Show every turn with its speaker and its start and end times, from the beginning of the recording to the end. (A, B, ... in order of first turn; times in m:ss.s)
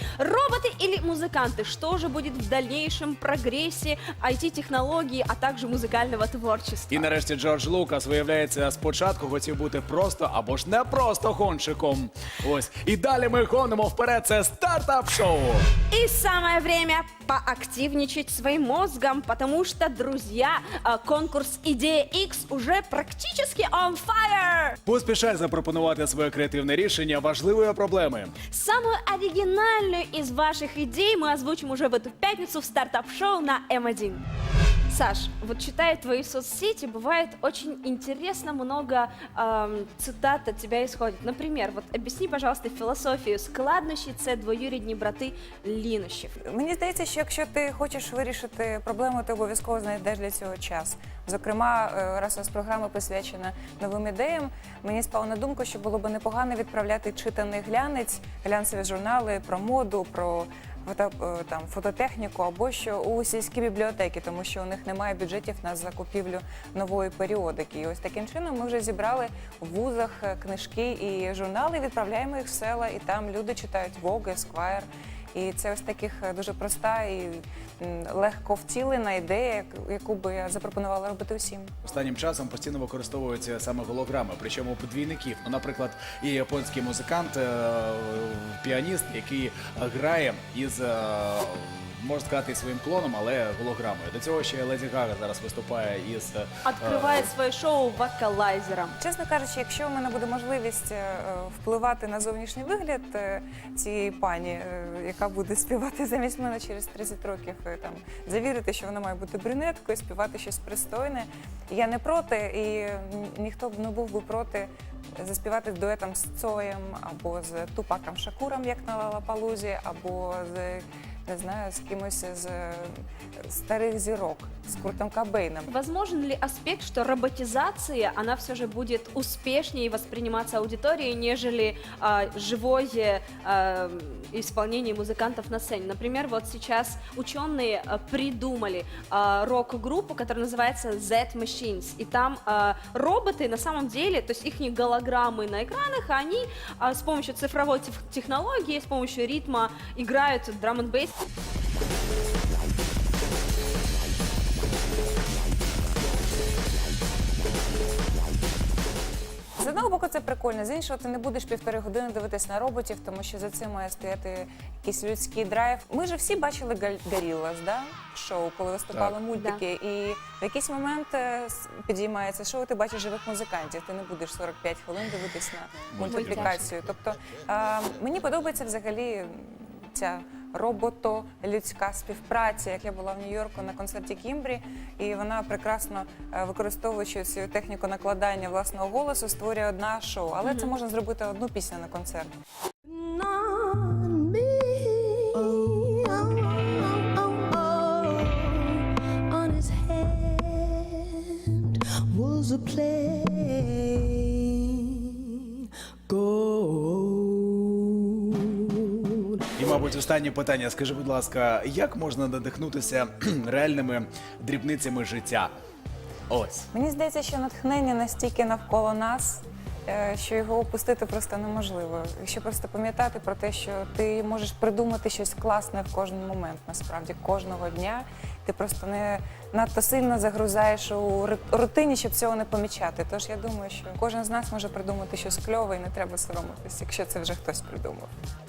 0:00.2-0:07.1 A
0:06.9-0:15.7 B
0:15.9-0:24.8 A
0:24.9-0:28.4 B
0:28.5-0:34.2 A
0:34.9-0:46.4 A
0:46.5-1:21.7 C
1:21.8-1:37.3 B
1:36.6-1:39.0 A
1:39.0-2:05.7 C
2:04.7-2:05.0 B
2:05.7-2:31.2 A
2:39.6-3:12.3 C
2:49.3-2:49.6 A
2:55.9-2:56.7 B
2:56.0-2:56.7 A
3:10.4-3:10.7 A
3:12.9-3:29.5 D
3:29.6-3:35.5 B
3:36.3-3:36.7 B
3:36.7-3:58.1 C